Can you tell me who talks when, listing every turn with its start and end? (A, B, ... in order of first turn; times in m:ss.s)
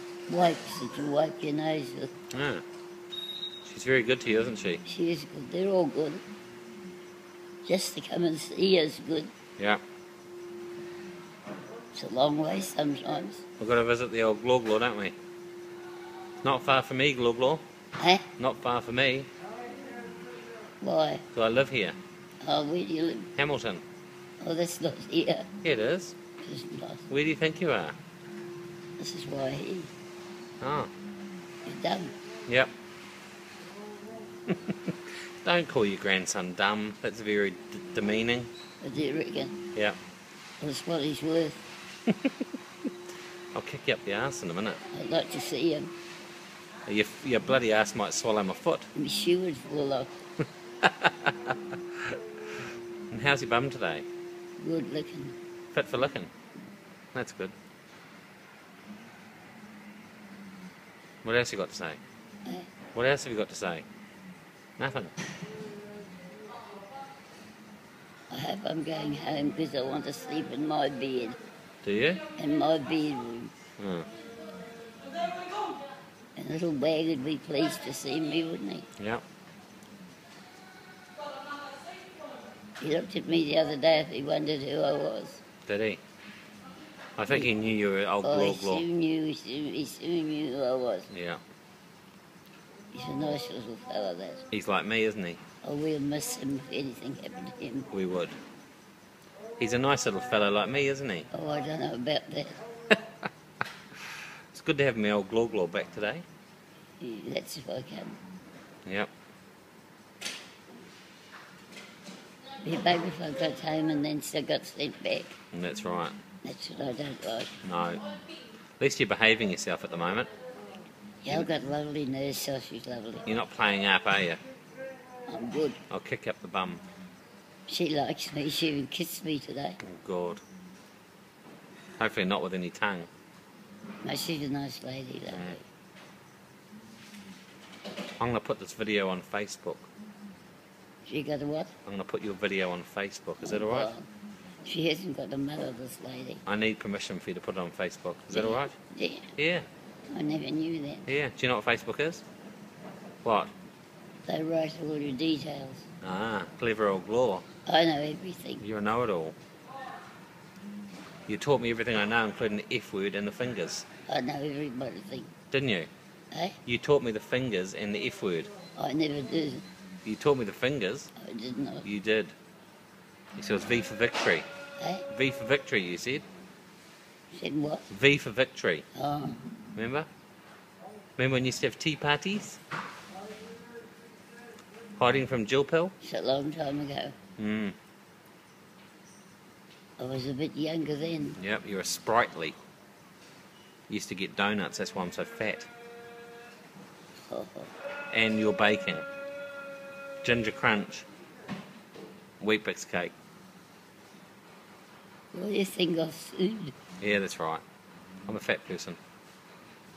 0:00.3-0:02.1 A
0:02.3-0:02.6 B
0:03.6-0:04.8 B
0:04.8-0:06.2 A
0:07.6-0:09.3 A
0:11.9-0:13.4 A
0:13.6-0:15.1 B
0:16.4-0:17.6 B
0:18.0-0:18.3 A
0:18.4-0:19.3 B
0:20.8-0:21.2 A
0:21.3-0:22.0 B
0:22.4-0:23.3 A
0:23.4-0:23.8 B
0:24.4-0:25.5 A
0:25.6-0:26.2 B
0:26.4-0:27.1 A
0:27.1-0:28.0 B
0:29.0-0:29.9 A
0:30.6-0:30.9 B
0:31.6-0:32.1 A
0:34.5-0:38.5 B
0:38.8-0:39.6 A
0:40.6-0:41.7 A
0:42.1-0:42.4 B
0:43.5-0:44.8 B
0:44.9-0:45.9 A
0:46.9-0:48.9 B
0:48.9-0:50.1 A
0:50.8-0:52.2 B
0:53.1-0:54.0 B
0:54.6-0:55.3 A
0:55.7-0:56.3 B
0:57.1-0:57.5 B
1:01.2-1:02.0 B
1:02.4-1:02.7 A
1:02.9-1:03.8 B
1:04.8-1:05.1 B
1:08.3-1:11.4 A
1:11.8-1:12.2 B
1:12.4-1:13.5 A
1:13.8-1:14.1 B
1:16.4-1:18.9 A
1:19.0-1:19.2 B
1:22.8-1:25.4 A
1:25.7-1:26.0 B
1:27.2-1:28.8 B
1:28.2-1:31.1 A
1:31.1-1:31.4 B
1:32.9-1:34.4 A
1:34.5-1:35.4 B
1:35.6-1:37.9 A
1:37.9-1:38.4 B
1:39.6-1:41.3 B
1:41.3-1:42.6 A
1:44.5-1:46.2 B
1:47.0-1:48.2 A
1:48.8-1:49.1 B
1:52.6-1:55.4 A
1:55.5-1:56.2 B
1:56.4-1:57.5 A
1:57.6-1:58.0 B
1:58.8-2:00.3 B
2:01.2-2:03.2 A
2:03.2-2:04.4 B
2:05.3-2:05.8 A
2:05.9-2:06.8 B
2:07.7-2:09.8 A
2:09.8-2:10.4 B
2:12.0-2:13.1 B
2:14.0-2:15.6 A
2:15.3-2:15.6 B
2:18.2-2:19.9 B
2:21.0-2:21.7 A
2:21.8-2:23.9 B
2:23.4-2:24.1 A
2:24.6-2:26.4 A
2:26.4-2:28.7 B
2:28.3-2:29.3 A
2:29.4-2:29.6 B
2:30.1-2:31.0 A
2:31.1-2:32.2 B
2:33.2-2:33.5 B
2:34.3-2:35.9 A
2:36.0-2:37.4 B
2:37.6-2:38.6 A
2:38.6-2:39.4 B
2:41.3-2:43.8 B
2:44.1-2:45.3 A
2:45.5-2:45.9 B
2:46.3-2:46.6 A
2:46.6-2:48.5 B
2:48.8-2:49.6 A
2:50.0-2:51.1 B
2:51.2-2:51.8 A
2:51.8-2:52.3 B
2:53.4-2:54.4 B
2:54.8-2:55.0 A
2:55.1-2:56.2 B
2:57.3-2:57.9 A
2:57.9-2:58.8 B
2:58.9-2:59.4 A
2:59.8-3:00.1 B
3:01.2-3:02.6 B
3:05.0-3:05.9 B
3:06.0-3:07.2 A
3:07.4-3:07.7 B
3:10.0-3:11.4 A
3:11.4-3:12.6 B
3:13.9-3:15.7 B
3:17.3-3:17.7 A
3:18.1-3:19.0 B
3:20.2-3:21.0 B
3:22.4-3:23.1 B
3:25.3-3:26.7 A
3:27.0-3:27.6 B
3:28.3-3:29.0 B